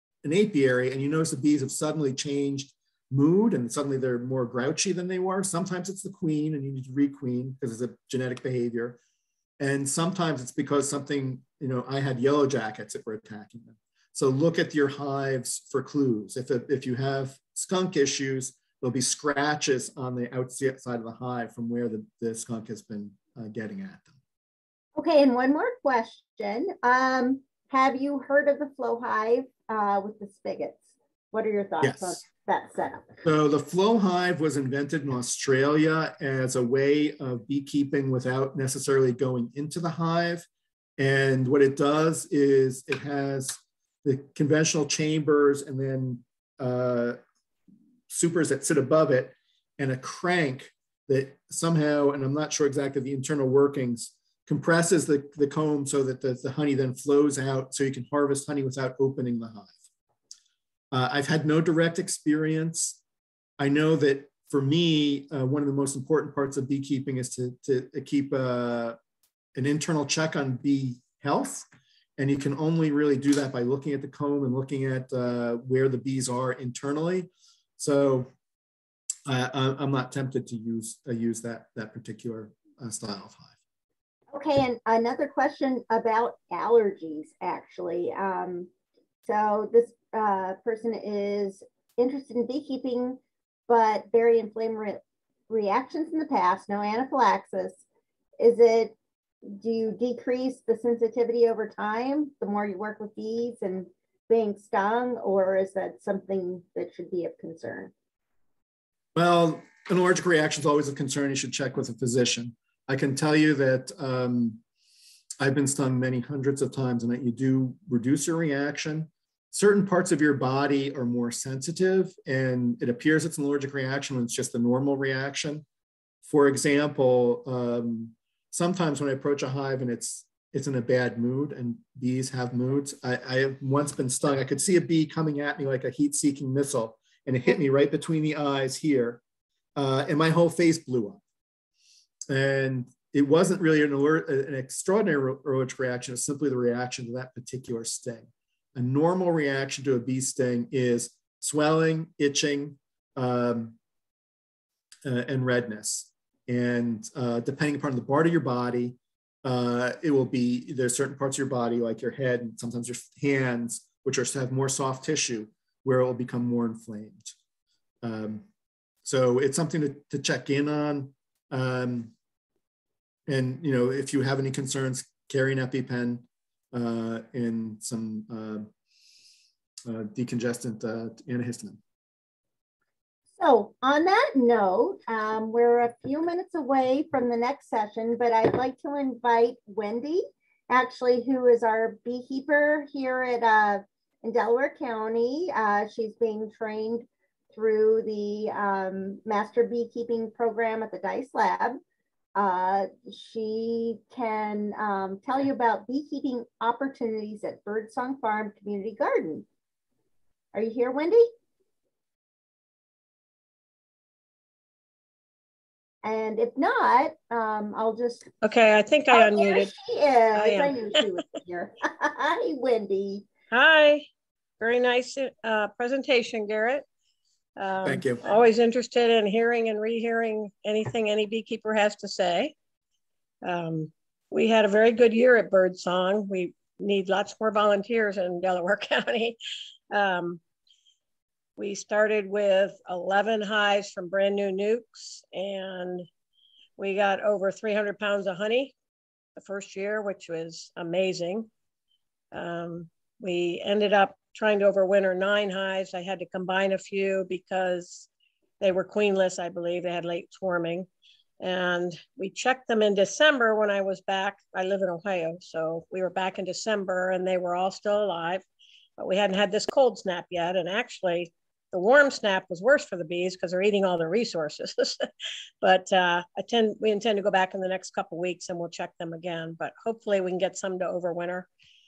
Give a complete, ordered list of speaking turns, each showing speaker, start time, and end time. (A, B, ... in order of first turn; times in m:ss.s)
0:00.2-0:09.0 A
0:09.6-0:24.1 A
0:25.0-0:33.2 B
0:31.8-0:32.2 A
0:33.2-0:40.4 A
0:41.0-0:47.2 A
0:48.1-0:59.7 A
1:00.9-1:03.0 A
1:03.6-1:09.0 A
1:09.5-1:11.6 A
1:12.2-1:18.3 A
1:19.3-1:23.5 A
1:24.3-1:28.7 B
1:29.2-1:37.8 B
1:38.4-1:47.9 B
1:49.1-1:54.6 A
1:55.4-2:05.6 A
2:06.2-2:19.2 A
2:19.8-2:21.2 A
2:22.3-2:33.8 A
2:35.0-2:47.3 A
2:48.0-2:48.5 A
2:49.0-2:52.1 A
2:53.3-2:58.7 A
2:59.8-3:01.8 A
3:03.4-3:21.8 B
3:22.3-3:29.4 B
3:30.5-3:31.3 B
3:36.0-3:38.3 B
3:38.4-3:39.7 C
3:39.1-3:43.3 B
3:40.3-3:41.2 C
3:43.5-3:44.1 C
3:44.6-3:46.8 C
3:47.6-3:52.5 C
3:47.8-3:48.2 A
3:53.4-3:59.4 C
3:59.9-4:00.4 C
4:01.6-4:06.1 C
4:06.8-4:08.7 C
4:09.4-4:11.5 C
4:12.3-4:18.1 C
4:18.6-4:20.9 C
4:21.4-4:28.4 C
4:29.0-4:35.1 C
4:35.6-4:41.5 C